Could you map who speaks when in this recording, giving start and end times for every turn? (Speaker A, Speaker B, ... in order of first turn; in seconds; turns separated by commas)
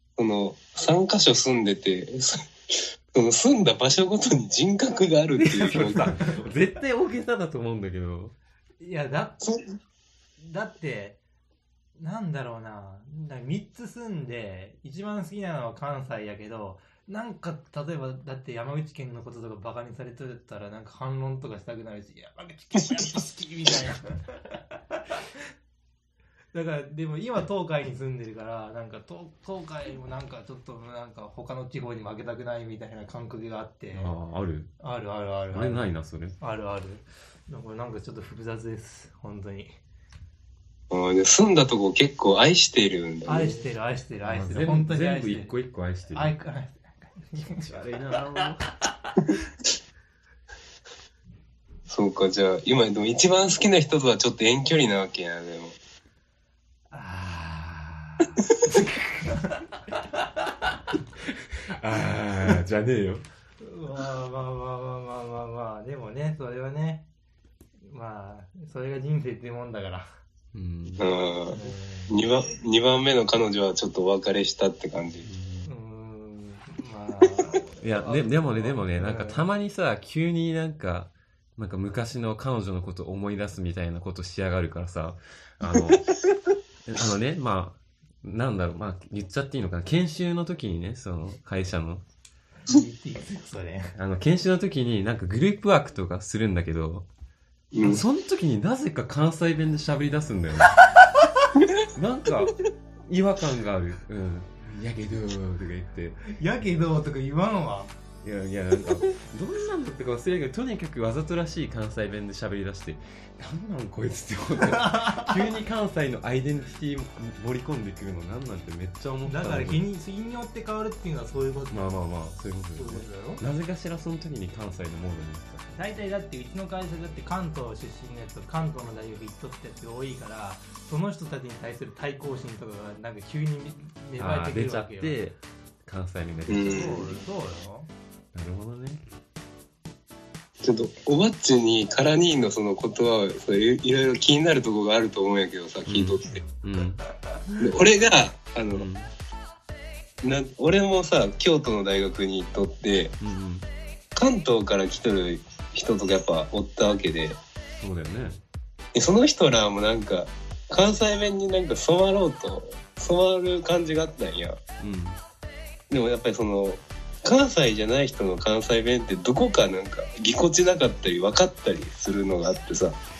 Speaker A: 0.2-6.1, Speaker B: 5.4-8.3, Speaker C: 8.8-9.4, Speaker C: 10.4-11.2, Speaker C: 12.0-25.2, Speaker C: 26.5-34.1, Speaker B: 33.9-34.7, Speaker C: 34.8-39.8, Speaker B: 35.5-36.4, Speaker A: 40.9-43.6, Speaker C: 43.3-45.6, Speaker B: 44.2-46.3, Speaker C: 46.1-48.5, Speaker B: 47.4-48.8, Speaker A: 51.9-55.8, Speaker C: 56.9-60.2, Speaker B: 61.7-63.2, Speaker C: 63.6-67.0, Speaker C: 67.9-70.1, Speaker B: 70.5-71.1, Speaker A: 71.0-75.3, Speaker C: 71.5-72.2, Speaker B: 75.2-75.7, Speaker C: 75.7-79.4, Speaker B: 77.8-86.0, Speaker B: 86.9-92.0, Speaker C: 92.6-94.0, Speaker B: 94.0-97.1, Speaker A: 97.7-98.0, Speaker B: 97.8-100.8, Speaker B: 102.0-102.6, Speaker B: 103.1-106.2, Speaker C: 106.3-107.9, Speaker B: 108.2-119.8, Speaker C: 114.8-115.3, Speaker C: 119.2-121.9, Speaker B: 121.7-125.6, Speaker C: 122.8-123.4, Speaker C: 125.7-135.2, Speaker B: 134.2-137.2, Speaker A: 136.5-137.1, Speaker C: 136.7-137.9, Speaker B: 138.3-139.0, Speaker A: 140.6-146.4, Speaker B: 145.8-147.8, Speaker A: 147.6-148.9, Speaker B: 148.7-149.1, Speaker A: 150.2-153.2, Speaker B: 153.2-153.7, Speaker A: 154.2-157.4, Speaker B: 157.8-158.4, Speaker A: 158.9-164.6, Speaker B: 164.8-165.2, Speaker A: 165.9-172.9